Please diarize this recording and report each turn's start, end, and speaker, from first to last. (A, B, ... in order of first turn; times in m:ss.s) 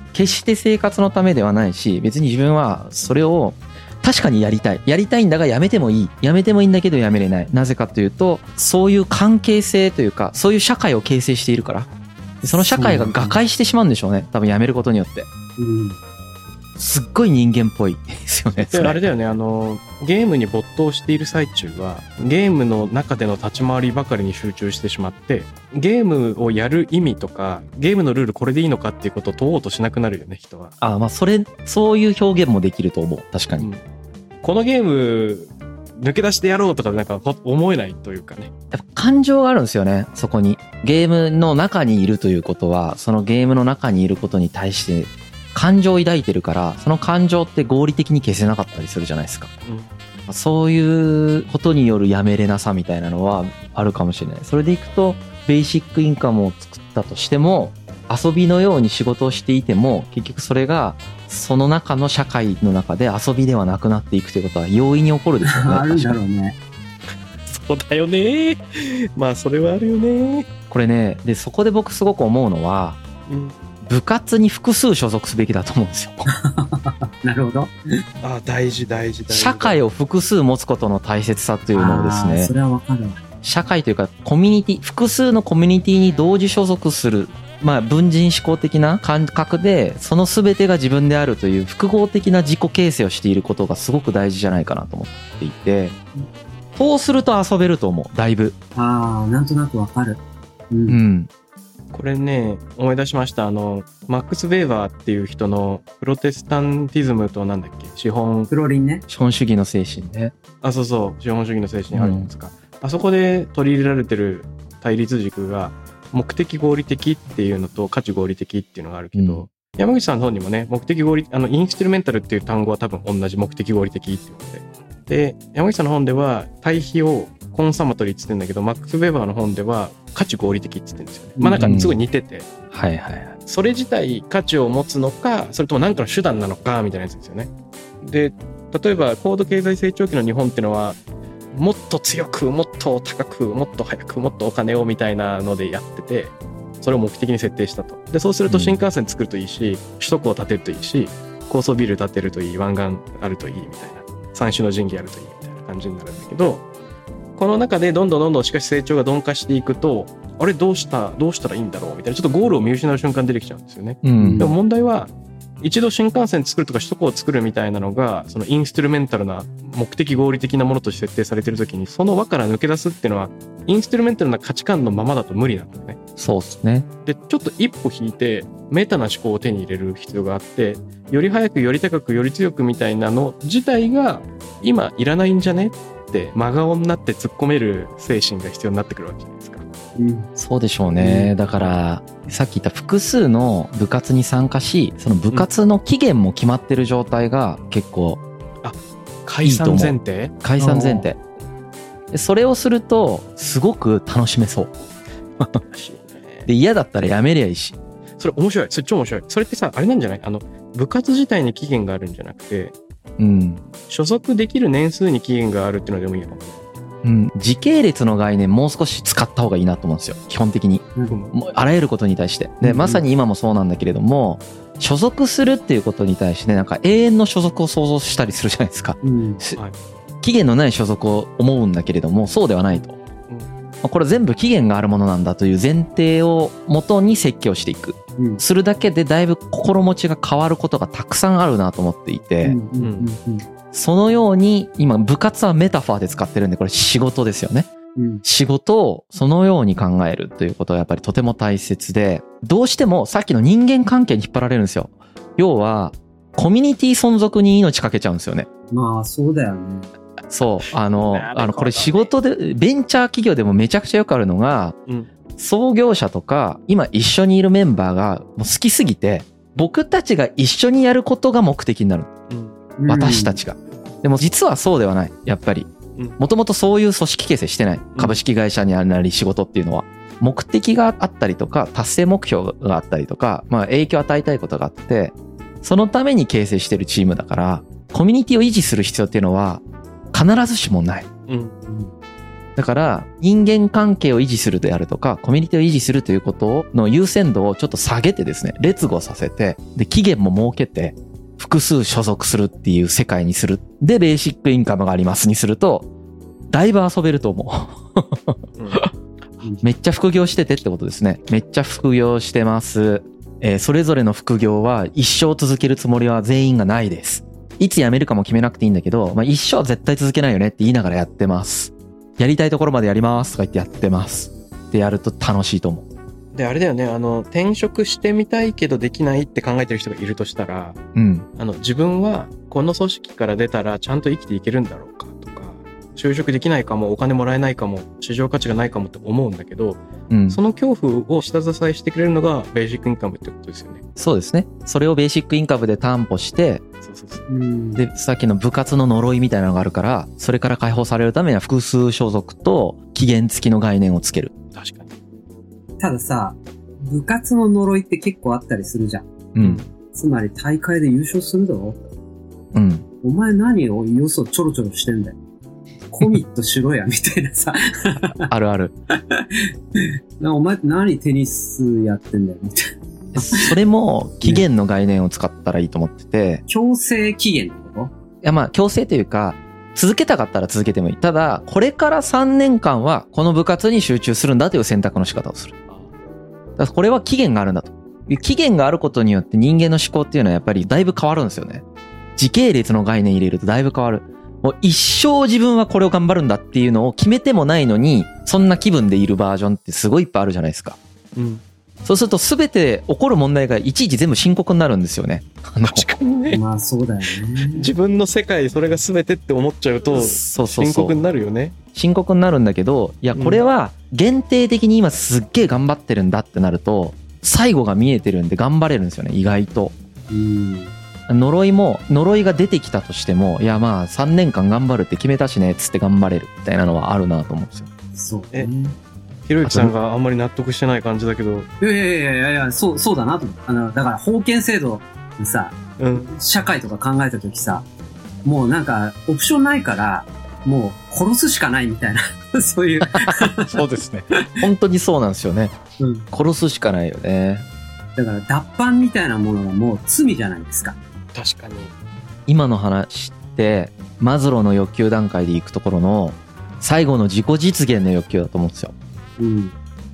0:00.1-0:11.9 A
0:12.4-0:13.4 B
0:12.4-0:15.3 A
0:15.6-0:16.0 B
0:16.8-0:19.0 A
0:18.7-0:30.7 C
0:30.8-0:33.7 A
0:34.4-0:38.5 C
0:38.7-0:49.5 A
0:49.7-0:49.9 C
0:50.3-1:06.2 A
1:05.4-1:06.6 B
1:07.5-1:10.5 C
1:10.7-1:13.0 A
1:13.3-1:13.6 C
1:13.8-1:16.3 A
1:16.4-1:17.7 B
1:18.2-1:19.8 C
1:19.3-1:22.5 A
1:21.7-1:23.2 B
1:23.4-1:36.0 A
1:36.8-1:38.6 A
1:38.8-1:40.2 B
1:40.7-1:41.0 B
1:40.9-1:41.3 A
1:41.9-1:48.5 C
1:48.5-1:49.0 B
1:49.1-1:50.3 A
1:50.6-2:12.5 C
1:51.9-1:52.3 A
1:59.2-1:59.5 A
2:11.4-2:11.7 B
2:11.6-2:12.0 A
2:12.7-2:13.3 A
2:13.5-2:17.5 C
2:18.0-2:21.0 C
2:21.5-2:36.6 C
2:28.5-2:28.8 A
2:37.4-2:56.0 C
2:44.0-2:44.5 A
2:44.2-2:44.5 B
2:56.2-2:56.9 A
2:57.0-3:09.6 C
3:10.0-3:10.3 B
3:10.4-3:18.2 A
3:11.0-3:11.3 B
3:18.6-3:20.3 C
3:19.4-3:21.2 A
3:20.6-3:21.1 B
3:22.1-3:24.7 A
3:25.7-3:26.5 C
3:26.5-3:27.8 A
3:28.2-3:32.8 C
3:33.2-3:33.6 A
3:33.9-3:36.6 C
3:37.0-3:49.6 A
3:41.1-3:41.3 C
3:42.6-3:43.0 B
3:49.0-3:49.4 B
3:50.2-3:53.0 A
3:53.8-4:02.6 A
4:02.4-4:03.4 B
4:02.8-4:03.1 C
4:03.7-4:07.7 A
4:08.0-4:08.2 B
4:08.2-4:18.5 A
4:18.7-4:19.9 B
4:20.3-4:24.8 A
4:21.1-4:22.1 C
4:25.4-4:32.1 A
4:32.3-4:32.6 C
4:32.8-4:33.4 B
4:32.9-4:51.1 A
4:51.3-4:51.5 C
4:51.7-4:51.9 B
4:52.6-5:05.9 A
5:06.5-5:08.9 A
5:08.6-5:08.8 C
5:09.6-5:25.9 A
5:26.3-5:30.8 C
5:31.0-5:31.3 A
5:31.4-5:43.8 C
5:40.1-5:40.4 A
5:44.0-5:46.6 A
5:46.8-5:47.2 C
5:47.3-5:47.8 B
5:47.8-5:54.3 A
5:54.5-5:54.9 C
5:55.8-5:59.1 B
5:59.4-5:59.6 A
5:59.4-5:59.6 C
5:59.9-6:01.8 B
6:02.5-6:02.9 A
6:03.0-6:05.2 B
6:05.9-6:08.3 B
6:08.3-6:08.7 A
6:10.2-6:13.5 B
6:13.2-6:16.4 A
6:16.5-6:17.9 B
6:18.2-6:25.6 A
6:26.6-6:31.6 A
6:32.2-6:40.8 A
6:41.2-6:41.4 C
6:41.8-6:45.9 A
6:45.6-6:46.4 C
6:46.3-6:47.7 B
6:47.5-6:51.6 C
6:49.9-6:51.0 A
6:51.7-6:59.7 A
6:53.1-6:53.4 C
7:00.1-7:00.7 B
7:01.1-7:07.7 A
7:07.9-7:08.8 B
7:09.3-7:11.5 C
7:09.4-7:09.7 A
7:11.6-7:17.6 B
7:15.8-7:16.1 C
7:18.2-7:23.6 B
7:22.9-7:23.3 A
7:23.5-7:24.0 C
7:24.4-7:25.5 A
7:25.8-7:26.0 B
7:26.1-7:27.4 A
7:28.0-7:30.8 B
7:31.1-7:31.7 C
7:32.3-7:38.7 A
7:39.2-7:39.6 B